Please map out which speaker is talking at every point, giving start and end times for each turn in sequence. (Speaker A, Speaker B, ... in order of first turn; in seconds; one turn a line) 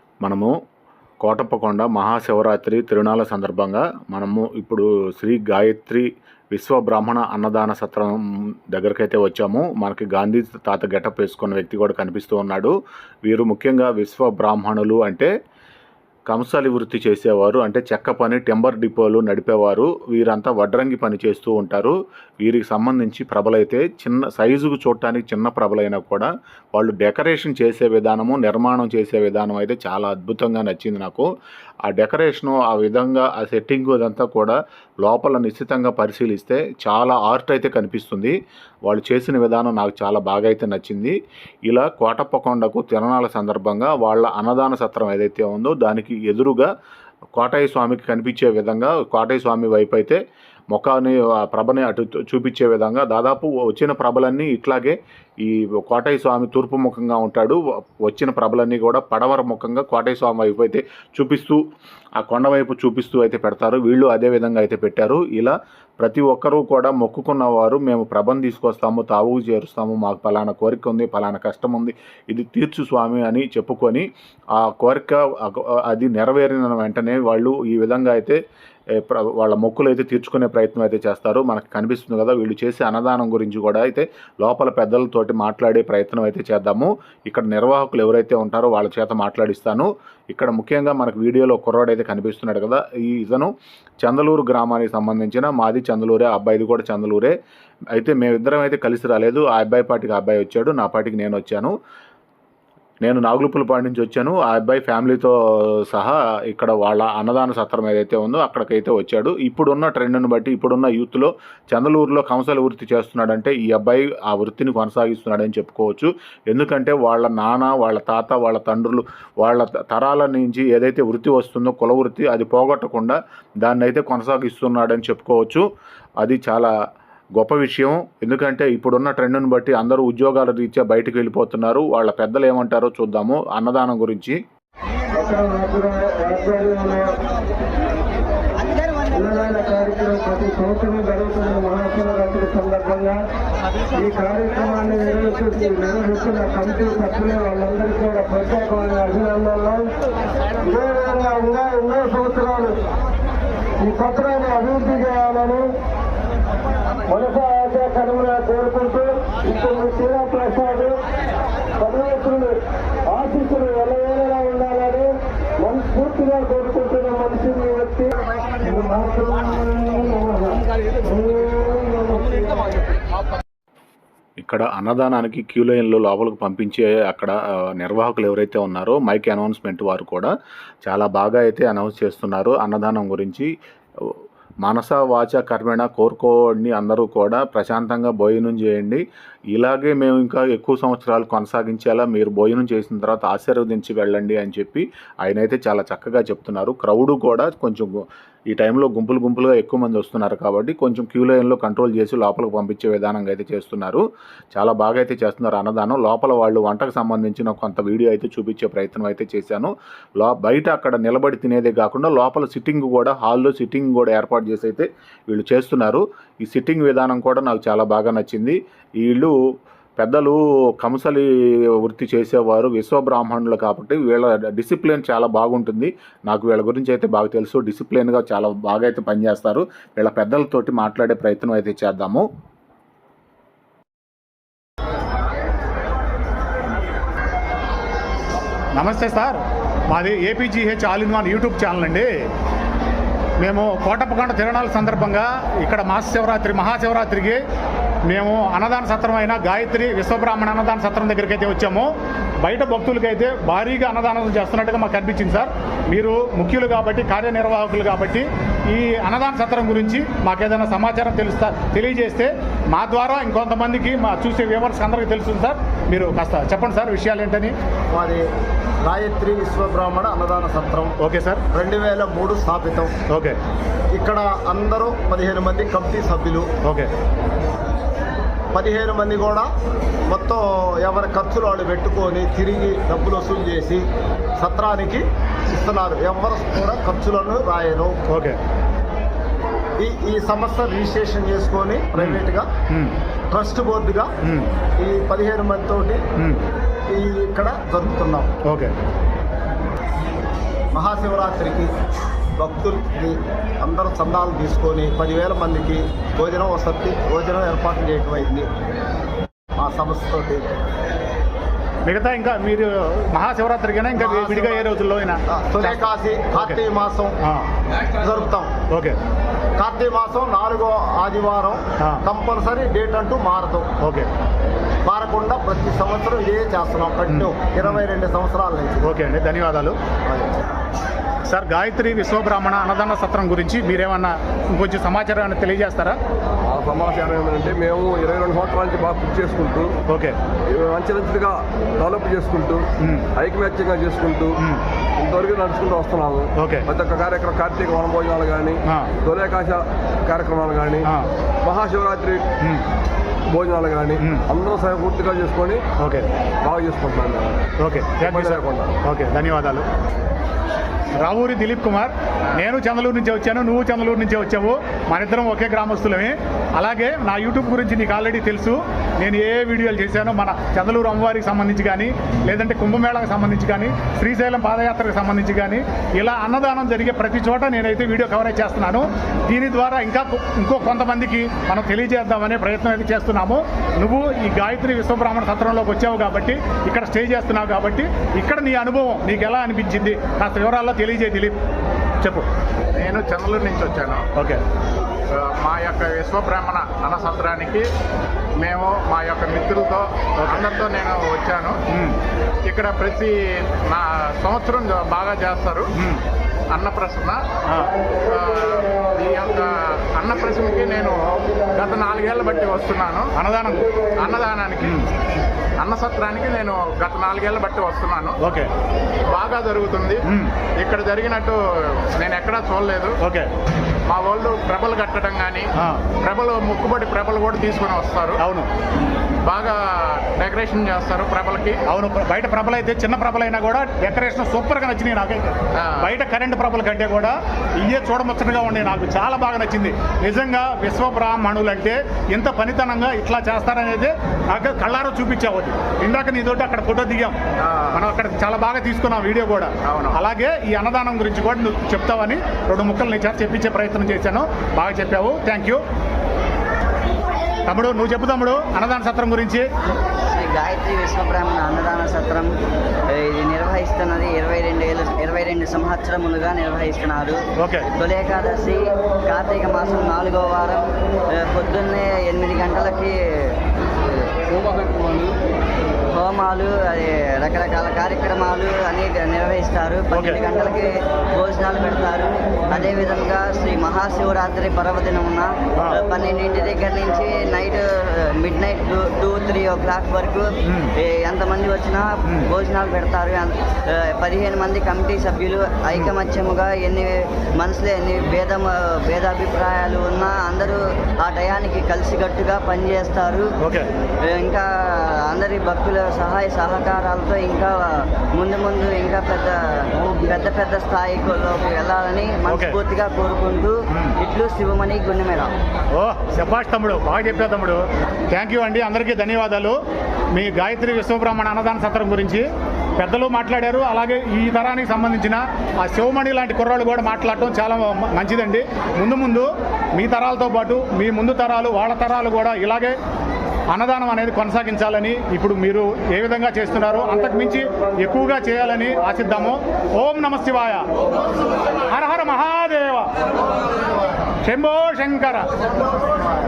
Speaker A: 0.2-0.5
Speaker A: 1.2-8.2
Speaker A: 8.7-12.7
Speaker A: 13.3-15.3
Speaker A: 16.3-31.3
Speaker A: 31.9-38.4
Speaker A: 38.9-41.1
Speaker A: 41.7-46.7
Speaker A: 47.4-50.2
Speaker A: 50.7-61.6
Speaker A: 62.2-74.1
Speaker A: 74.6-78.4
Speaker A: 79.0-93.5
Speaker A: 94.0-97.3
Speaker A: 98.0-101.7
Speaker A: 103.0-125.6
Speaker A: 126.2-126.7
Speaker A: 127.4-134.4
Speaker B: 135.2-137.2
Speaker B: 139.2-143.2
Speaker B: 143.9-149.8
Speaker B: 150.6-152.8
Speaker B: 153.8-155.7
Speaker B: 157.1-160.9
Speaker B: 161.8-162.5
Speaker B: 163.1-165.1
Speaker B: 165.6-172.7
Speaker A: 174.4-180.3
Speaker A: 180.8-183.5
Speaker A: 184.0-189.0
Speaker A: 189.5-219.3
Speaker A: 220.0-232.2
Speaker C: 238.7-242.1
Speaker C: 243.4-247.4
Speaker C: 248.1-251.9
Speaker C: 252.4-267.5
Speaker D: 267.9-268.2
Speaker D: 268.8-270.9
Speaker C: 271.0-271.4
Speaker D: 271.5-272.9
Speaker C: 273.1-273.4
Speaker D: 273.9-276.5
Speaker C: 276.6-276.9
Speaker D: 278.5-279.5
Speaker D: 280.1-283.8
Speaker D: 284.4-288.0
Speaker C: 288.1-288.4
Speaker D: 289.8-292.5
Speaker C: 292.7-292.9
Speaker D: 293.3-294.1
Speaker C: 294.2-294.5
Speaker D: 294.8-296.0
Speaker D: 296.9-298.3
Speaker C: 298.5-298.7
Speaker D: 300.7-301.7
Speaker D: 302.4-308.5
Speaker D: 309.6-310.5
Speaker C: 311.9-315.8
Speaker D: 314.0-314.7
Speaker D: 315.3-317.2
Speaker D: 318.0-318.5
Speaker C: 318.7-319.0
Speaker D: 319.6-323.7
Speaker C: 323.8-324.1
Speaker D: 324.8-328.9
Speaker C: 327.1-327.8
Speaker C: 328.8-329.8
Speaker D: 330.1-330.3
Speaker C: 331.2-336.0
Speaker E: 336.4-339.8
Speaker C: 339.9-340.2
Speaker E: 340.5-344.4
Speaker C: 342.8-343.1
Speaker E: 345.0-350.9
Speaker C: 346.4-346.7
Speaker C: 348.7-348.9
Speaker E: 351.4-352.2
Speaker E: 353.3-355.6
Speaker C: 355.8-356.1
Speaker E: 356.4-357.5
Speaker C: 357.6-359.7
Speaker E: 358.0-358.8
Speaker C: 361.0-391.4
Speaker C: 392.0-392.3
Speaker F: 392.7-394.1
Speaker C: 394.1-394.4
Speaker F: 395.1-397.7
Speaker F: 398.4-401.6
Speaker C: 401.7-401.9
Speaker F: 402.5-405.7
Speaker C: 405.8-406.0
Speaker F: 406.5-407.2
Speaker F: 408.0-413.1
Speaker C: 413.1-413.7
Speaker F: 413.9-414.8
Speaker F: 415.6-418.2
Speaker C: 418.2-418.5
Speaker F: 419.1-420.0
Speaker C: 420.1-420.3
Speaker F: 420.6-423.0
Speaker C: 423.0-423.3
Speaker F: 423.9-425.5
Speaker C: 425.6-425.9
Speaker F: 426.0-428.2
Speaker C: 428.2-428.5
Speaker F: 429.2-431.6
Speaker C: 431.7-447.2
Speaker F: 435.6-435.9
Speaker F: 447.4-447.8
Speaker C: 447.7-455.6
Speaker F: 449.6-450.0
Speaker C: 457.5-459.5
Speaker G: 460.1-462.3
Speaker G: 463.0-473.3
Speaker C: 467.4-467.7
Speaker E: 474.3-475.1
Speaker G: 475.9-503.3
Speaker C: 479.9-480.2
Speaker C: 490.4-490.7
Speaker C: 503.4-503.7
Speaker G: 504.1-504.5
Speaker G: 505.1-515.3
Speaker C: 512.3-512.6
Speaker C: 515.7-519.6
Speaker C: 520.1-522.2
Speaker C: 522.8-532.8
Speaker C: 533.5-540.6
Speaker C: 541.6-542.9
Speaker C: 544.2-545.3